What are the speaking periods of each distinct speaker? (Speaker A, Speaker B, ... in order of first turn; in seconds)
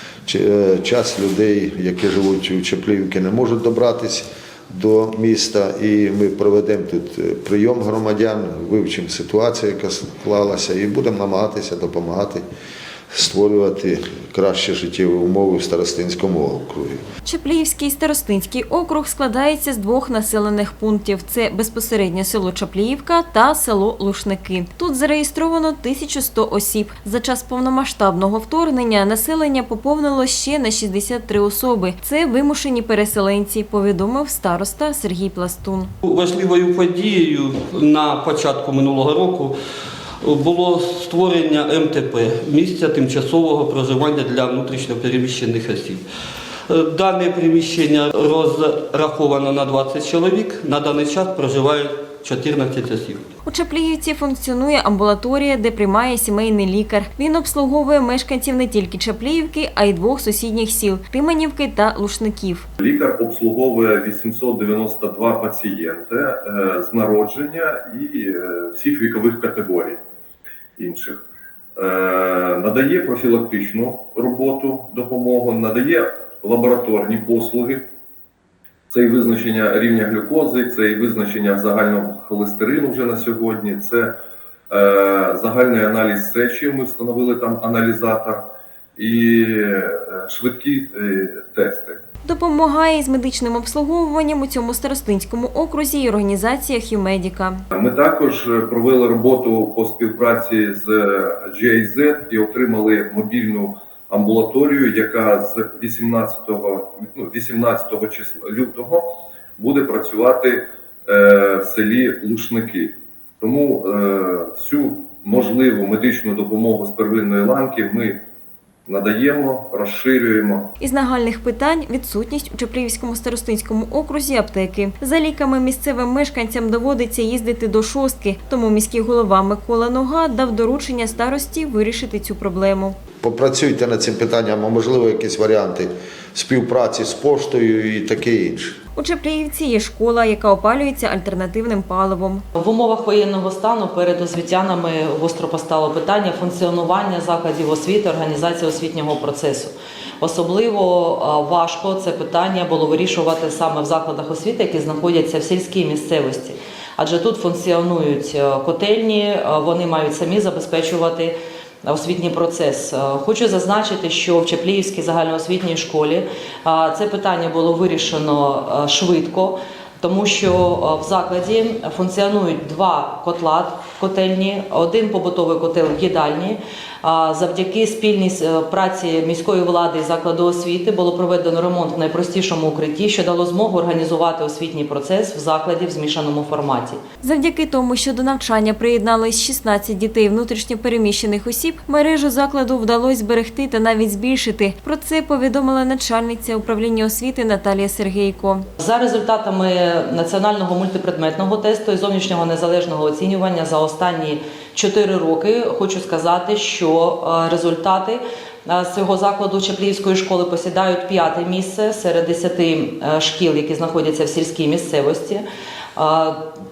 Speaker A: 0.2-12.4, 13.1-17.0, 133.2-138.8
Speaker B: 17.2-35.9, 53.5-62.7, 92.2-97.6, 120.8-132.9, 138.9-142.4, 187.2-198.7
Speaker C: 36.0-39.5, 40.2-46.0, 46.7-53.2
Speaker D: 62.8-70.0, 70.8-71.2, 71.8-77.8, 78.9-84.1, 84.7-88.4, 89.0-92.0, 97.7-109.0, 109.6-118.2, 118.9-120.7
Speaker E: 142.5-187.0, 198.8-215.4, 216.0-216.4